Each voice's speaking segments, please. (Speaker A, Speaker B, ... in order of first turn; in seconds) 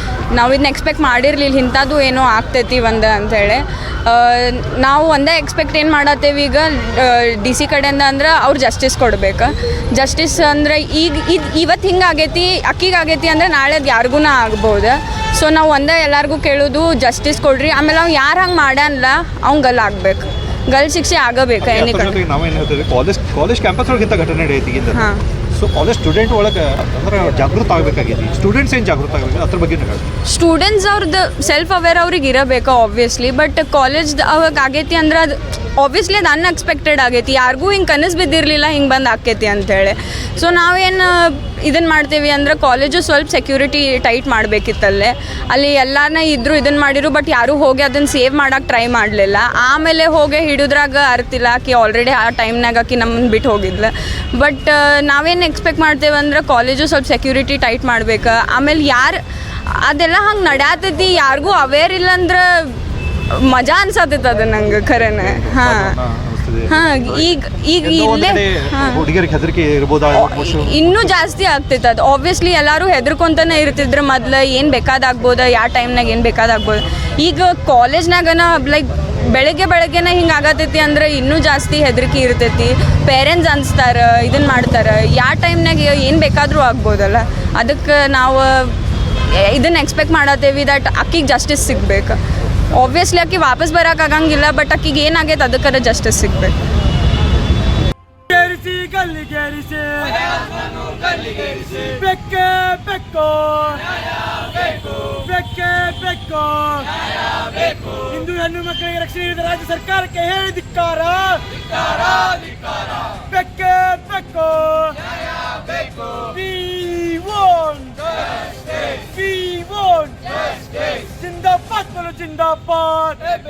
Speaker A: 0.3-22.2, 24.9-25.2, 30.3-59.2, 59.7-62.8, 63.3-66.0, 66.7-69.1, 70.1-88.7, 89.5-92.2, 92.7-96.5
Speaker B: 21.6-30.1, 65.2-67.2, 67.8-71.2
Speaker C: 98.3-100.2, 101.7-103.8, 105.2-106.9, 107.9-111.4, 113.3-115.0, 116.2-118.0, 119.0-120.3, 121.0-123.2